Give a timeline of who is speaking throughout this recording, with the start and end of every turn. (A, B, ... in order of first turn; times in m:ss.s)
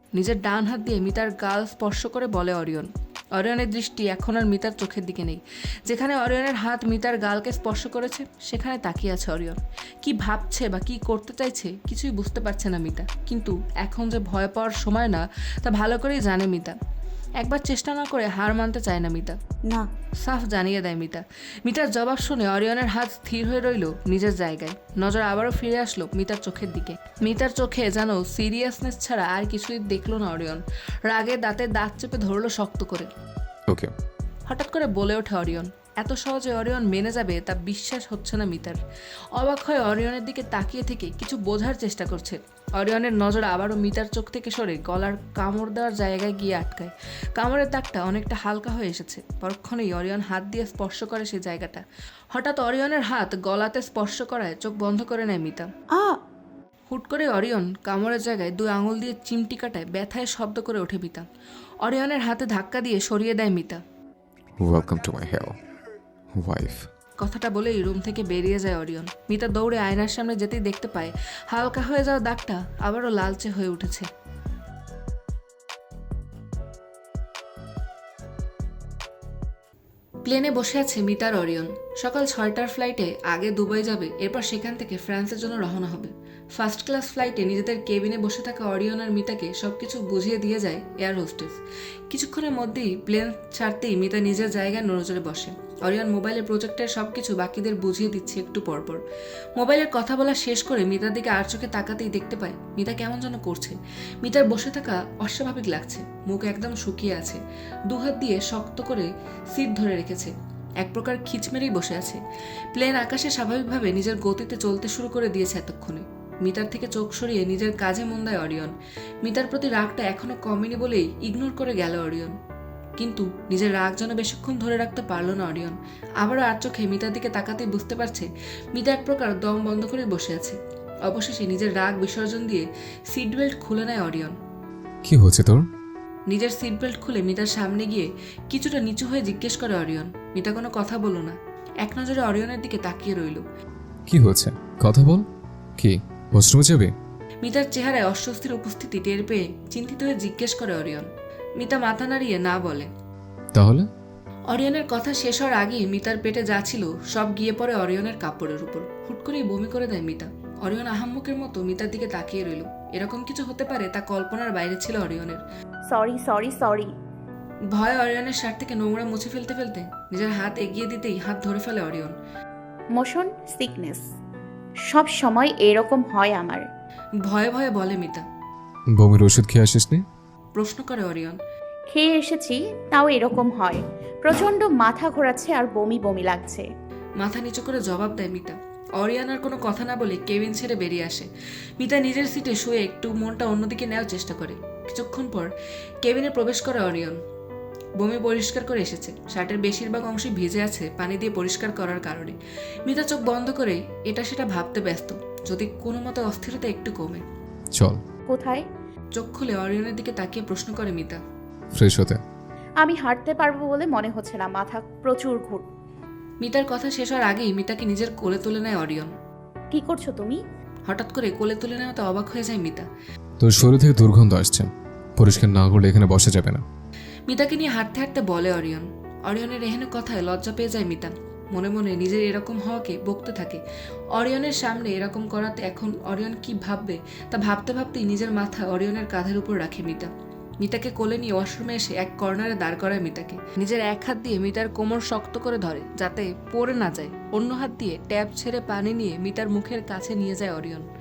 0:00.2-0:16.8 A
0:17.4-0:19.4 A
0:20.2-0:33.1 A
0:34.5-0:38.8 A
0:39.4-0:55.7 A
0:56.9-1:01.2 A
1:01.8-1:03.8 A
1:04.6-1:05.6 B
1:06.4-1:06.9 B
1:07.2-1:14.1 A
1:20.2-1:39.0 A
1:39.6-1:52.2 A
1:52.8-2:02.4 A
2:03.0-2:14.3 A
2:15.0-2:15.6 B
2:16.3-2:23.4 A
2:24.1-2:25.2 B
2:25.8-2:26.9 B
2:27.4-2:31.1 A
2:31.6-2:32.9 A
2:33.5-2:33.9 B
2:34.5-2:45.4 A
2:45.9-2:46.9 C
2:47.7-2:52.1 A
2:52.9-2:54.0 C
2:54.9-2:56.6 C
2:57.2-2:58.2 A
2:59.0-3:00.0 B
3:00.6-3:01.4 A
3:01.9-3:06.7 C
3:07.2-3:11.3 A
3:11.8-3:15.5 A
3:16.0-3:17.2 A
3:18.0-3:22.4 A
3:22.9-3:27.2 A
3:27.7-3:28.0 B
3:28.3-3:28.6 C
3:29.2-3:31.2 A
3:31.8-3:32.2 B
3:32.8-3:35.6 C
3:36.4-3:39.1 A
3:39.7-3:40.4 C
3:40.9-3:42.9 A
3:43.4-3:46.6 B
3:47.3-3:53.6 A
3:54.2-4:00.1 A
4:00.6-4:10.9 A